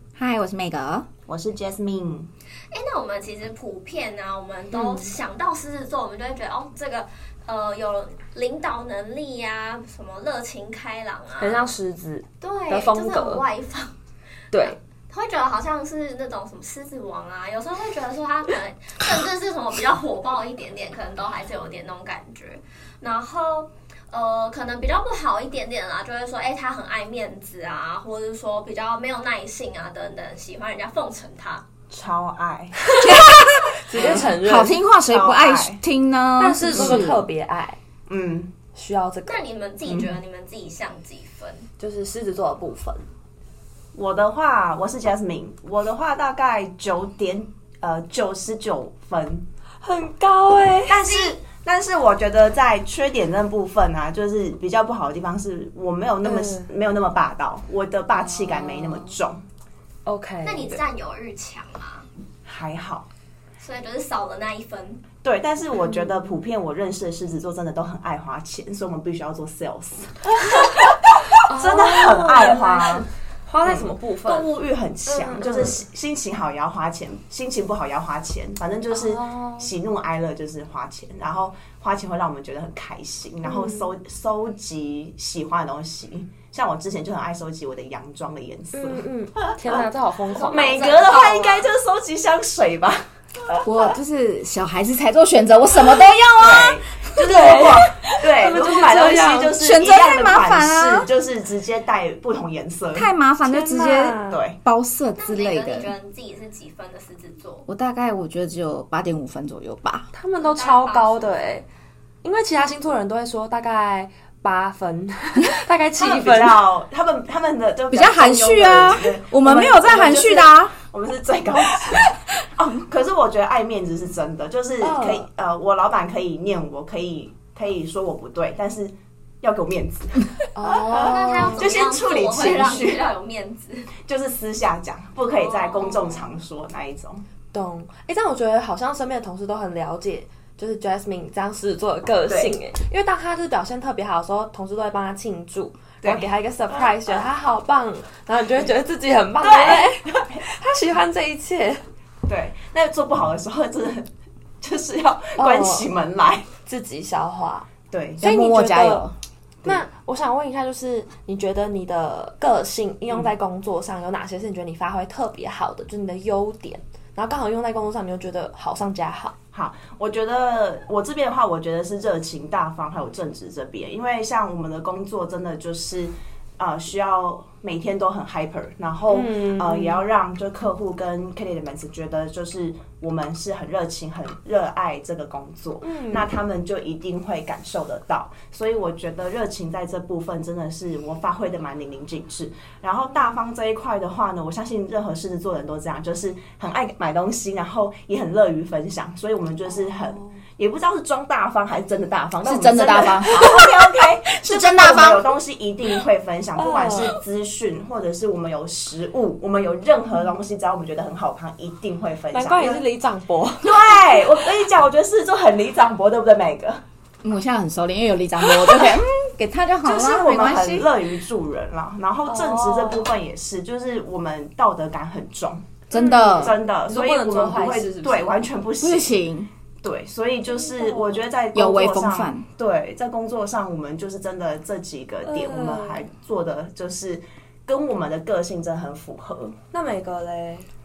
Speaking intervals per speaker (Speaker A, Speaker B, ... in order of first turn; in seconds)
Speaker A: 0.1-1.1, 33.0-37.2, 93.6-97.7, 99.6-101.1, 103.0-105.9, 107.7-110.1, 117.9-120.7, 158.2-159.8, 202.4-203.6, 204.4-205.2, 217.2-220.9, 225.9-226.6, 228.8-229.5, 231.5-232.4
Speaker B: 1.3-2.3, 31.9-32.8, 34.0-34.3, 35.1-35.8, 36.7-37.1, 38.1-38.6, 39.9-40.2, 43.9-49.5, 50.9-59.4, 62.5-63.1, 65.2-73.1, 73.6-89.0, 90.3-93.7, 96.4-103.1, 104.3-104.6, 116.0-133.1, 134.1-137.2, 142.3-142.6, 146.0-147.2, 149.4-150.4, 152.3-154.1, 154.6-156.5, 157.9-158.3, 169.5-212.8, 213.6-216.8, 219.8-229.1, 229.8-239.6
Speaker C: 2.7-11.7, 12.4-13.9, 14.7-31.6, 39.3-41.7, 51.0-51.4, 60.4-62.1, 63.6-65.0, 90.5-91.7, 105.1-107.7, 110.4-111.4, 130.9-133.9, 135.3-136.3
Speaker D: 4.7-5.1, 11.4-13.4, 14.5-14.8, 33.8-34.8, 36.4-37.8, 38.7-39.5, 41.8-43.0, 49.8-51.0, 56.2-56.7, 58.2-59.2, 60.1-60.8, 71.5-74.5, 75.1-75.8, 78.9-79.7, 83.4-83.9, 88.7-90.8, 97.2-99.6, 103.4-104.4, 110.1-111.7, 112.2-116.6, 124.8-125.3, 130.6-131.8, 137.5-151.8, 155.4-155.9, 156.7-157.7, 158.2-159.1, 159.7-169.3, 179.1-180.0, 185.8-186.3, 206.6-207.2, 212.3-214.0, 222.3-223.1, 225.9-228.4, 230.5-231.3, 235.2-236.0, 239.7-240.7